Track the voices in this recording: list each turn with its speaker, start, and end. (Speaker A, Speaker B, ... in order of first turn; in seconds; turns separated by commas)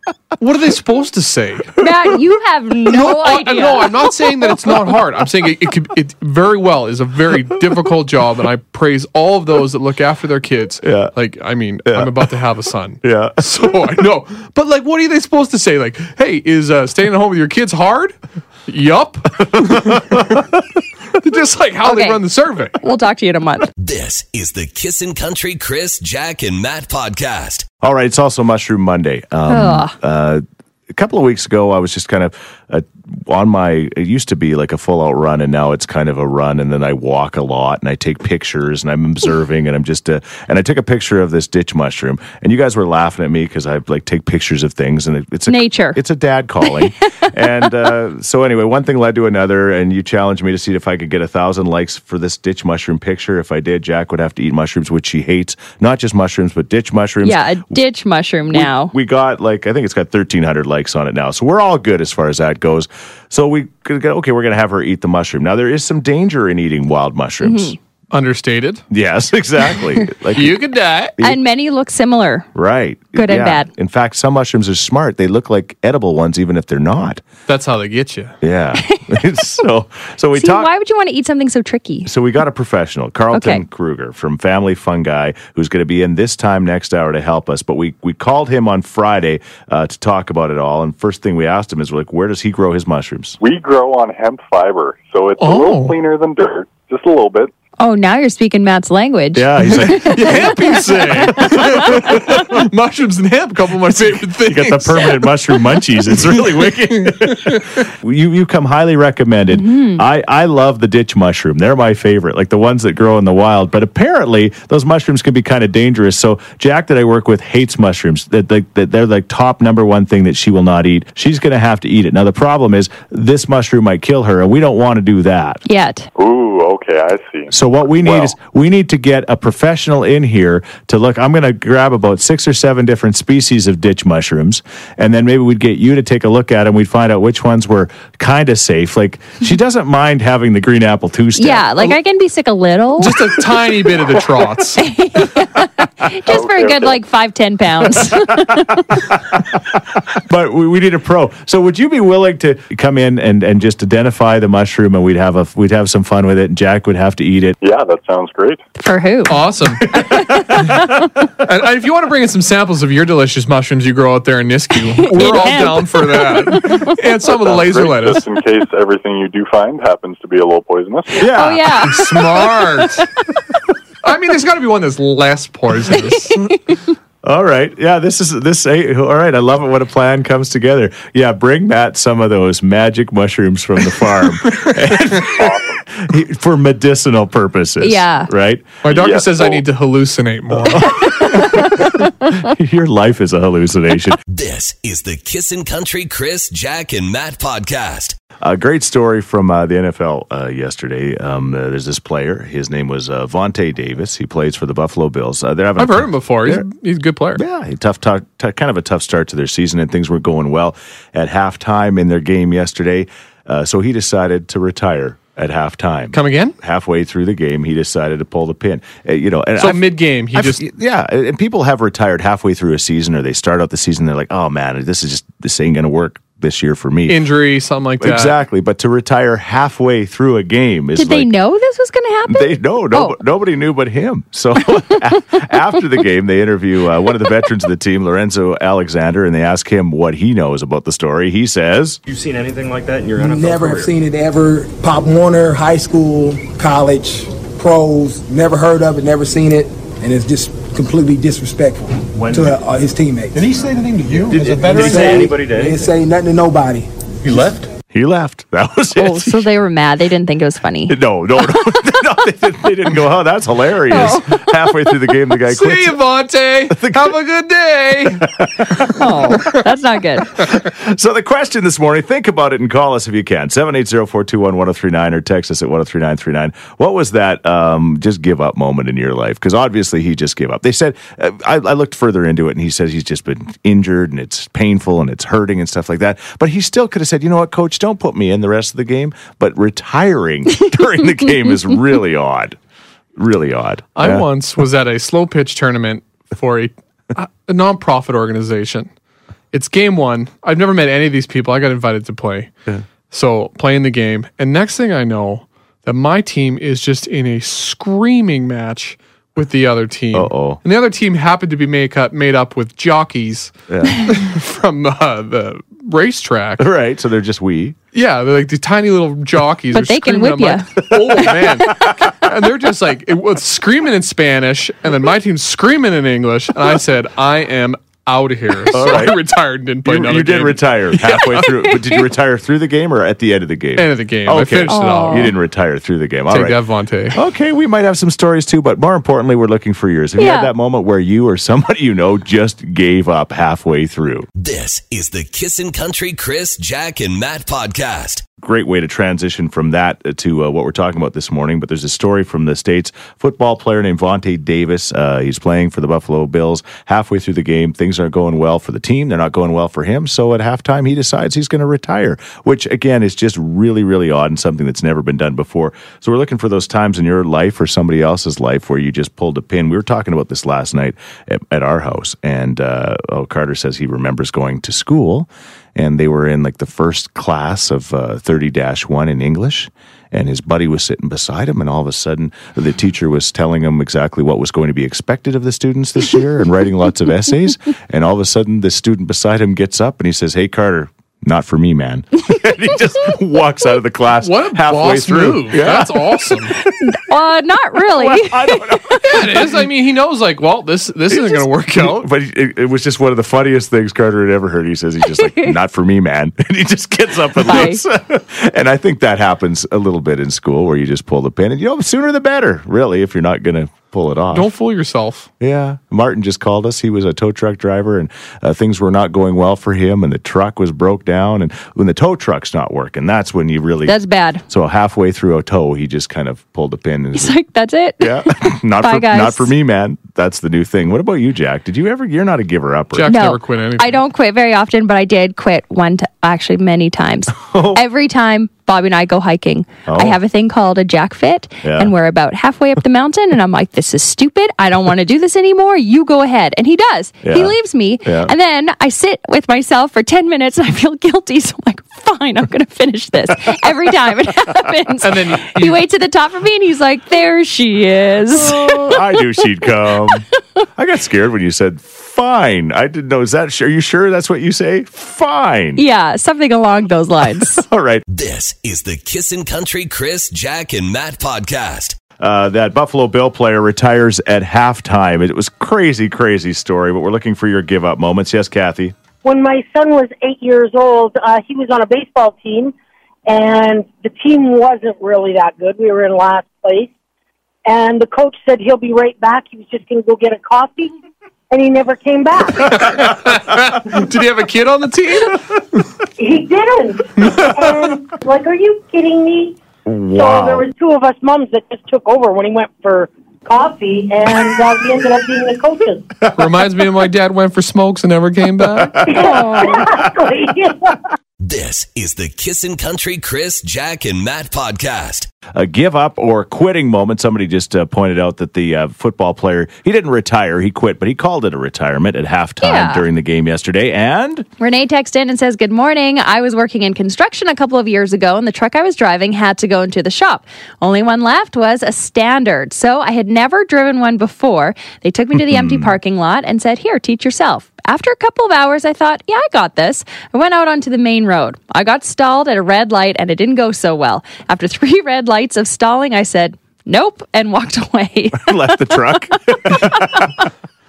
Speaker A: 0.4-1.7, Speaker B: 1.8-4.0, Speaker A: 2.9-20.5, Speaker C: 10.8-11.1, Speaker C: 11.8-12.1, Speaker C: 13.0-13.4, Speaker C: 19.6-20.0, Speaker A: 21.1-22.8, Speaker B: 21.8-22.2, Speaker B: 22.8-23.7, Speaker D: 23.8-27.7, Speaker C: 27.8-57.8, Speaker B: 29.5-29.9, Speaker B: 45.5-46.0, Speaker B: 57.2-58.9, Speaker C: 58.5-67.8, Speaker B: 67.4-67.8, Speaker A: 68.1-68.8, Speaker C: 68.9-70.6, Speaker A: 70.3-71.2, Speaker B: 71.2-72.5, Speaker C: 72.5-77.2, Speaker B: 73.2-73.7, Speaker A: 77.5-78.4, Speaker C: 78.4-80.7, Speaker B: 80.4-82.1, Speaker C: 82.0-93.4, Speaker B: 83.3-83.6, Speaker E: 93.4-97.5, Speaker A: 95.4-96.0, Speaker B: 97.8-100.8, Speaker C: 99.3-100.7, Speaker A: 99.8-105.4, Speaker C: 101.3-102.3, Speaker B: 101.4-101.9, Speaker C: 104.0-125.6, Speaker A: 107.1-107.6, Speaker B: 109.5-110.0, Speaker B: 125.7-126.1, Speaker E: 126.2-128.3, Speaker C: 127.5-142.0, Speaker B: 141.4-143.2, Speaker A: 143.0-144.9, Speaker B: 144.8-149.0, Speaker E: 146.3-147.0, Speaker C: 150.2-157.6, Speaker E: 157.6-158.6, Speaker B: 158.8-160.7, Speaker A: 159.3-159.9, Speaker A: 161.4-168.2, Speaker B: 165.0-167.0, Speaker E: 167.4-171.3, Speaker C: 171.2-171.8, Speaker B: 171.2-173.1, Speaker A: 171.8-173.1, Speaker A: 174.0-176.5, Speaker B: 176.5-176.8, Speaker C: 177.2-188.8, Speaker E: 185.3-185.8, Speaker B: 187.8-188.3, Speaker A: 188.8-191.2, Speaker E: 188.9-189.6, Speaker C: 190.6-191.7, Speaker B: 191.0-192.3, Speaker C: 192.3-194.2, Speaker D: 194.2-198.2, Speaker C: 198.4-206.7, Speaker A: 205.8-207.4, Speaker C: 207.3-227.3, Speaker A: 216.1-216.6, Speaker A: 219.6-220.6, Speaker A: 227.1-228.4, Speaker C: 228.0-231.3, Speaker B: 231.0-233.2, Speaker C: 232.3-242.0, Speaker F: 242.1-243.9, Speaker G: 243.2-257.5, Speaker F: 252.2-252.6, Speaker F: 253.4-255.9, Speaker F: 257.3-257.7, Speaker C: 257.9-259.5, Speaker B: 259.0-261.7, Speaker C: 260.9-266.0, Speaker B: 263.9-264.4, Speaker A: 265.4-268.3, Speaker C: 266.7-267.2, Speaker C: 268.2-269.0, Speaker B: 268.9-270.4, Speaker C: 270.4-292.6, Speaker C: 293.2-294.3, Speaker A: 294.0-298.9, Speaker A: 299.5-302.5, Speaker A: 303.1-316.7, Speaker C: 310.1-310.6, Speaker C: 313.7-314.1, Speaker C: 316.6-317.8, Speaker A: 317.9-331.3, Speaker B: 319.7-321.9, Speaker C: 328.7-329.2, Speaker C: 329.9-336.6, Speaker A: 333.8-335.3, Speaker B: 334.7-335.3, Speaker A: 336.3-337.2, Speaker C: 337.1-344.3, Speaker B: 340.2-340.5, Speaker D: 344.4-348.2, Speaker C: 348.4-396.5, Speaker A: 394.2-396.5, Speaker B: 396.8-399.2, Speaker C: 397.9-399.5, Speaker A: 399.0-402.1, Speaker C: 401.1-414.5, Speaker B: 405.2-405.5, Speaker B: 407.4-407.8, Speaker A: 414.3-415.3, Speaker C: 415.4-427.4, Speaker B: 423.9-424.4, Speaker B: 427.1-429.5, Speaker C: 428.0-433.2, Speaker A: 432.9-434.0, Speaker B: 433.1-459.0, Speaker C: 437.4-437.8, Speaker C: 439.9-440.2, Speaker C: 441.6-441.9, Speaker C: 447.2-448.3, Speaker A: 455.0-455.8, Speaker C: 458.3-460.3, Speaker C: 460.8-465.8, Speaker B: 465.8-467.6, Speaker C: 467.4-468.1, Speaker D: 468.1-472.0, Speaker C: 472.2-478.9, Speaker H: 479.2-482.7, Speaker H: 483.3-486.9, Speaker H: 487.7-490.9, Speaker H: 491.5-492.8, Speaker A: 492.6-495.5, Speaker H: 496.2-499.6, Speaker C: 499.9-500.7, Speaker H: 500.1-506.1, Speaker A: 506.3-509.0, Speaker H: 509.1-511.0, Speaker B: 509.1-509.8, Speaker D: 511.4-515.3, Speaker C: 515.5-524.5, Speaker B: 522.6-523.0, Speaker B: 524.6-549.1, Speaker C: 535.4-536.0, Speaker C: 548.3-550.3, Speaker B: 549.7-550.2